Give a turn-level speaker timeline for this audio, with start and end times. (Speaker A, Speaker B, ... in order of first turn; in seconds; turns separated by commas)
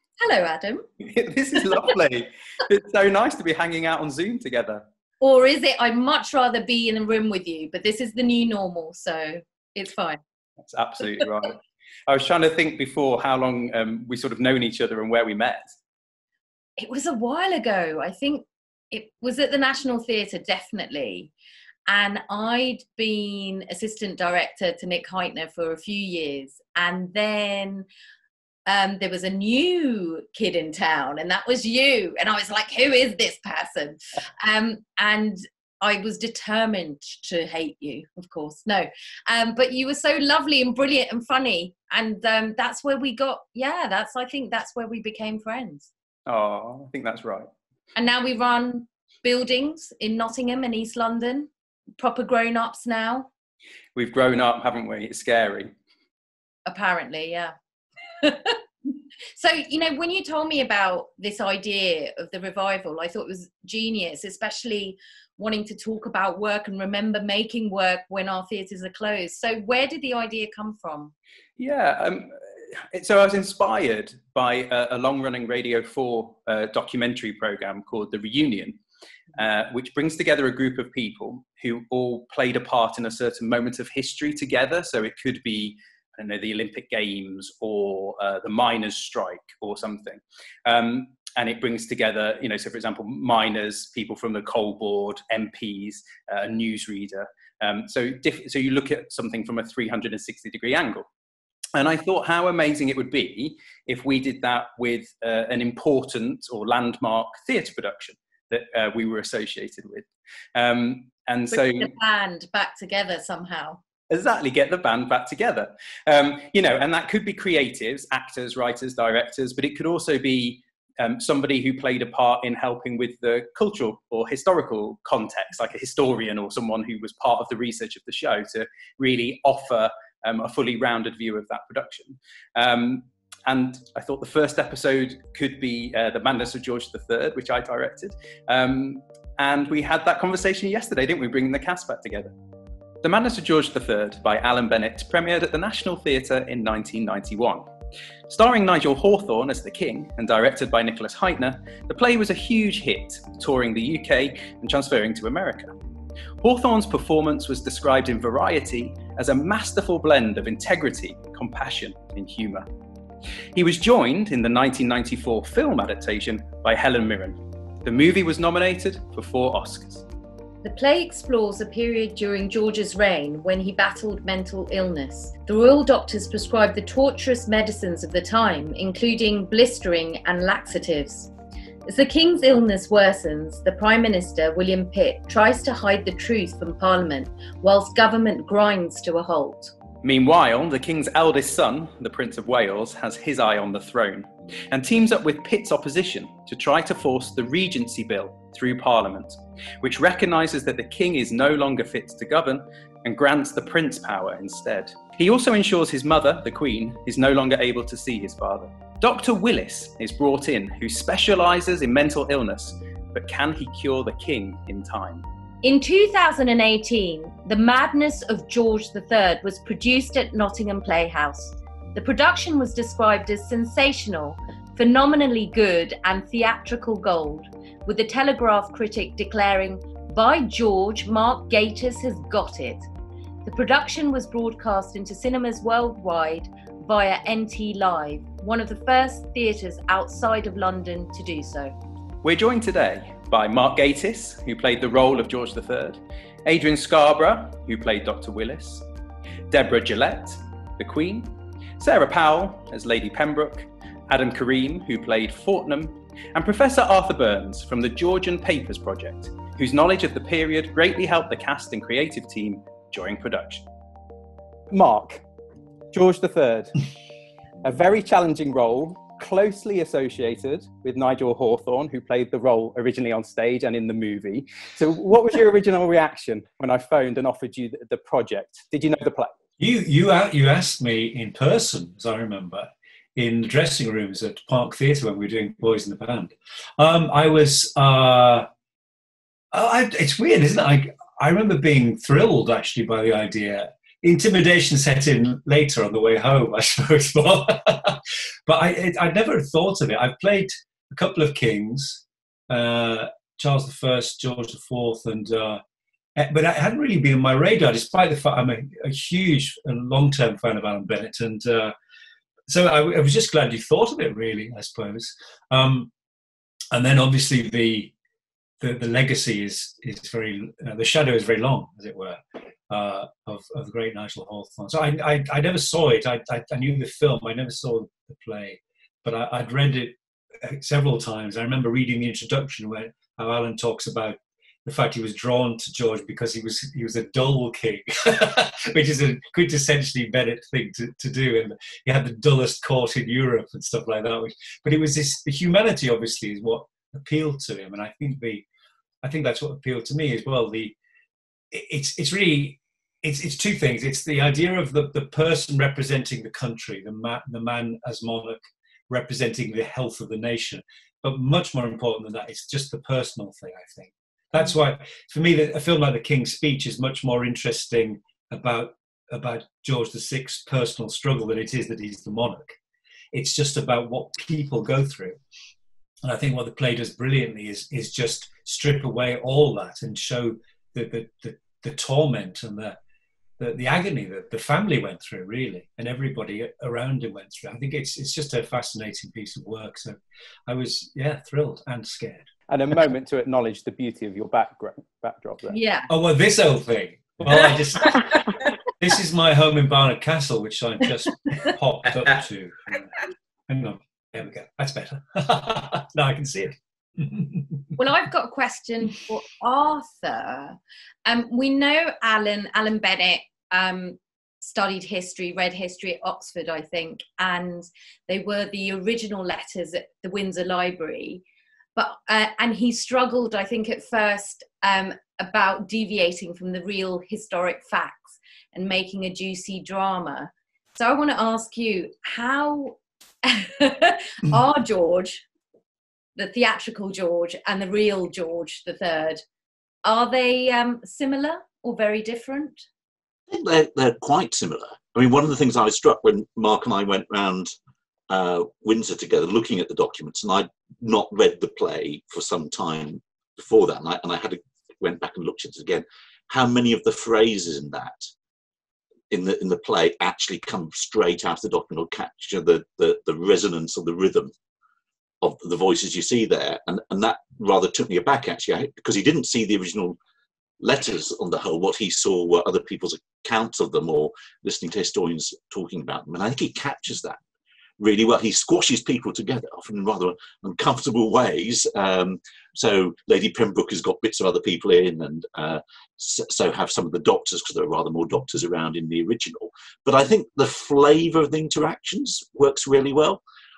Speaker A: 0.2-0.8, Speaker B: 1.0-4.8, Speaker A: 5.2-10.2, Speaker B: 10.6-15.7, Speaker A: 16.8-21.3, Speaker A: 21.9-27.9, Speaker A: 28.7-45.9, Speaker B: 46.3-47.5, Speaker A: 48.0-53.3, Speaker B: 54.0-55.7, Speaker A: 56.7-57.5, Speaker A: 58.2-58.6, Speaker A: 59.4-71.1, Speaker B: 71.6-78.8, Speaker B: 79.4-101.1, Speaker B: 101.8-111.9, Speaker A: 111.5-113.8, Speaker B: 114.1-142.3, Speaker B: 143.0-147.7, Speaker B: 148.3-155.7, Speaker B: 156.4-162.7, Speaker B: 163.6-170.1, Speaker A: 170.6-181.3, Speaker A: 181.9-189.7, Speaker B: 190.0-215.2, Speaker A: 215.6-232.9, Speaker A: 233.4-241.7, Speaker B: 242.2-248.9, Speaker B: 249.5-263.6, Speaker B: 264.7-265.2, Speaker B: 265.9-266.7, Speaker B: 267.6-279.4, Speaker C: 279.6-288.5, Speaker C: 289.5-305.6, Speaker C: 306.2-311.7, Speaker C: 312.5-315.9, Speaker C: 316.7-317.9, Speaker C: 318.6-348.4, Speaker C: 349.0-350.8, Speaker C: 351.5-372.6, Speaker C: 373.1-375.2, Speaker C: 376.0-382.8, Speaker C: 383.4-392.3, Speaker B: 392.5-395.6, Speaker A: 395.5-395.9, Speaker C: 395.9-398.1, Speaker C: 398.8-402.9, Speaker C: 403.5-407.6, Speaker A: 407.8-421.2, Speaker A: 421.8-435.2, Speaker A: 436.2-439.2, Speaker A: 439.8-442.6, Speaker D: 443.3-447.5, Speaker D: 448.1-458.1, Speaker D: 459.1-464.3, Speaker D: 465.2-470.0, Speaker D: 470.6-477.2, Speaker D: 477.8-493.2